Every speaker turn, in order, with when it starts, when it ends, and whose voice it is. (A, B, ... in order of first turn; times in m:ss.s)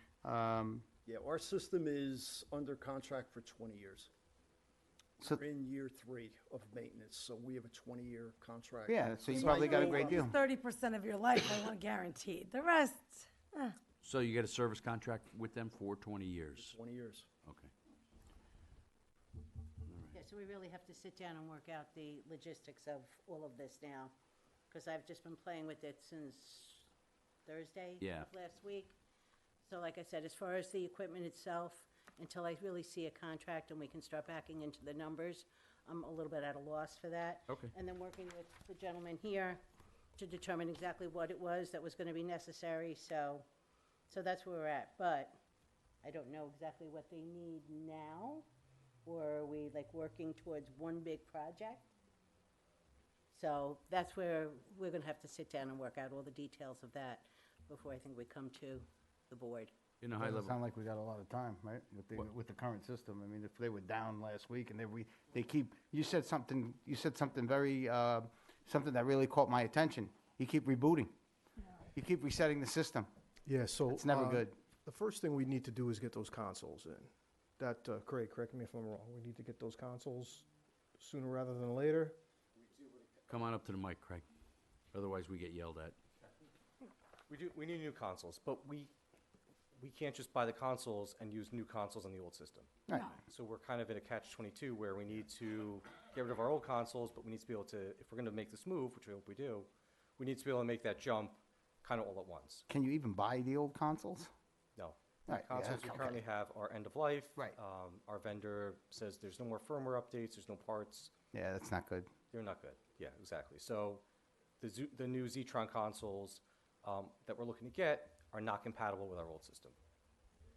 0:00.2-0:00.8 A
0:01.1-0:04.1 B
0:05.2-0:10.4 B
0:08.9-0:10.3 A
0:09.6-0:13.8 C
0:14.0-0:16.8 D
0:16.6-0:17.3 B
0:17.4-0:17.7 D
0:19.9-0:20.2 D
0:20.1-0:24.1 E
0:24.7-0:26.9 E
0:27.5-0:29.0 E
0:28.0-0:28.3 D
0:29.6-0:39.6 E
0:40.2-0:43.4 E
0:44.1-0:45.4 E
0:46.0-0:48.5 E
0:49.0-0:51.8 E
0:53.3-0:59.7 E
1:00.0-1:00.6 D
1:00.2-1:11.1 A
1:11.9-1:13.1 A
1:13.5-1:20.4 F
1:13.9-1:14.6 A
1:21.0-1:22.2 F
1:23.3-1:24.2 D
1:24.9-1:26.0 D
1:27.3-1:28.9 G
1:29.8-1:42.7 G
1:32.9-1:33.2 A
1:42.7-1:44.3 A
1:44.8-1:51.1 G
1:45.3-1:46.2 A
1:51.3-1:52.1 A
1:52.3-1:54.0 G
1:54.6-1:59.8 G